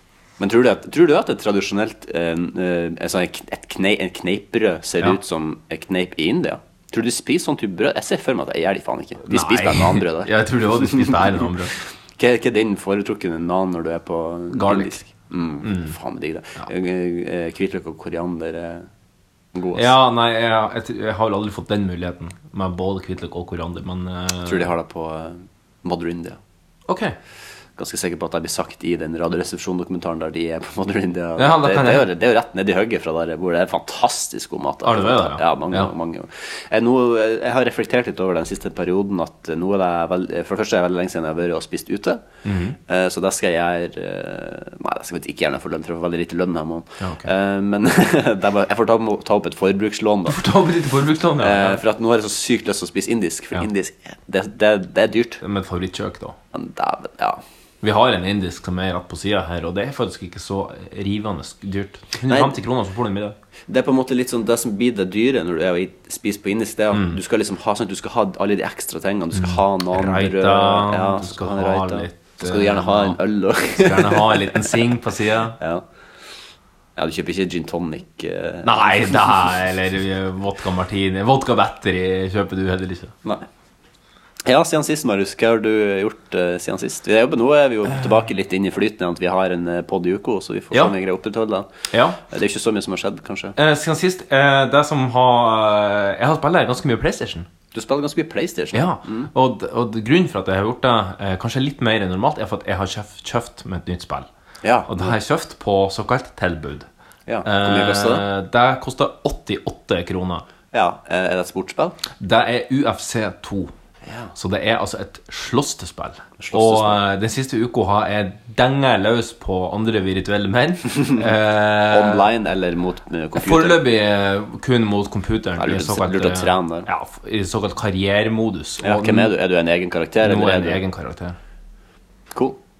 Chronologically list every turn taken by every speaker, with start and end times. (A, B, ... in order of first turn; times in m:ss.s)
0:00.4-0:11.1 A
0:09.2-0:11.8 B
0:12.2-0:18.9 A
0:14.5-0:15.0 B
0:15.6-0:15.9 B
0:19.5-0:19.9 A
0:19.7-0:24.7 B
0:24.4-0:26.4 A
0:26.9-0:27.2 B
0:27.8-0:42.2 A
0:31.4-0:32.1 B
0:34.8-0:35.9 B
0:42.4-0:42.8 B
0:42.9-0:50.4 A
0:47.0-0:47.3 B
0:50.3-0:51.8 B
0:51.4-0:55.4 A
0:55.4-0:56.4 B
0:56.5-0:57.4 A
0:57.8-1:03.4 B
1:02.2-1:02.6 A
1:03.7-1:14.7 A
1:06.9-1:07.2 B
1:09.3-1:15.6 B
1:17.0-1:19.4 A
1:18.6-1:23.1 B
1:24.4-1:31.7 A
1:30.7-1:31.0 B
1:31.9-1:32.2 B
1:32.3-1:33.6 A
1:33.6-1:37.5 B
1:37.7-1:39.3 A
1:38.7-1:44.3 B
1:44.6-1:45.1 A
1:44.9-1:46.9 B
1:47.3-1:48.2 A
1:47.4-1:50.4 B
1:50.7-1:52.0 A
1:52.2-1:53.7 B
1:54.0-1:54.3 A
1:54.4-2:02.3 B
1:56.4-1:57.0 A
2:01.9-2:03.8 A
2:03.4-2:09.3 B
2:05.6-2:06.9 A
2:08.8-2:10.8 A
2:10.2-2:11.4 B
2:12.3-2:12.6 A